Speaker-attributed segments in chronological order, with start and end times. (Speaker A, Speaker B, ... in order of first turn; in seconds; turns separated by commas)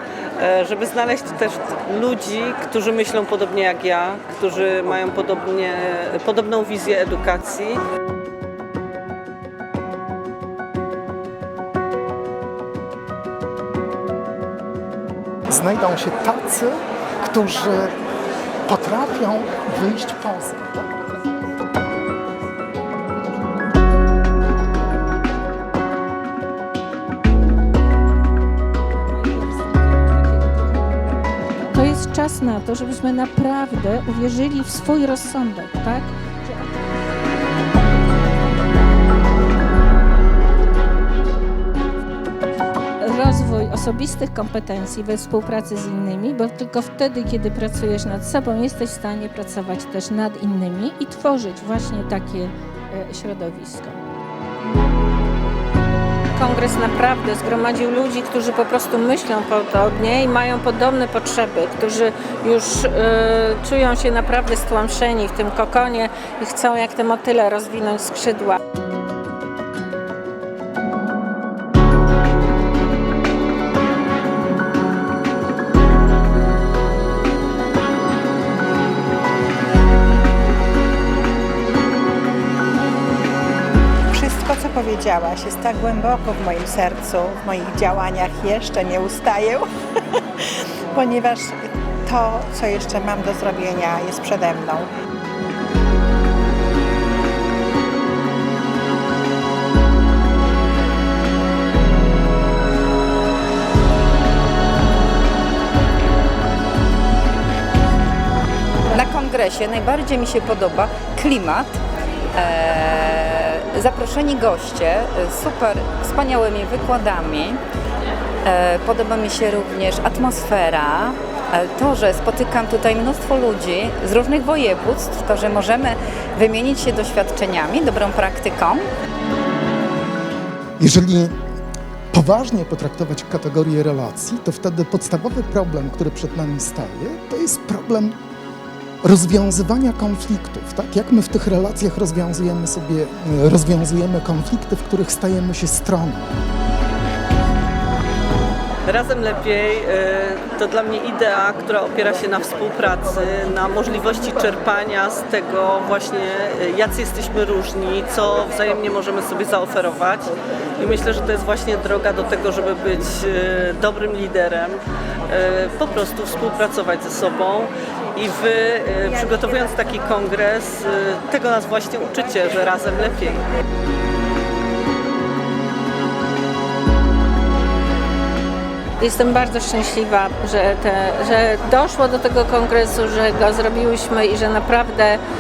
Speaker A: 0.4-7.8, Speaker B: 15.5-17.9, Speaker B: 18.6-21.0, Speaker C: 31.6-36.2, Speaker C: 43.0-54.0, Speaker C: 56.3-68.6, Speaker D: 84.1-89.7, Speaker D: 90.9-94.9, Speaker E: 108.9-111.8, Speaker E: 112.3-117.6, Speaker E: 118.5-128.8, Speaker B: 130.8-131.3, Speaker B: 132.1-138.2, Speaker B: 139.0-146.3, Speaker A: 148.9-173.4, Speaker C: 179.0-185.2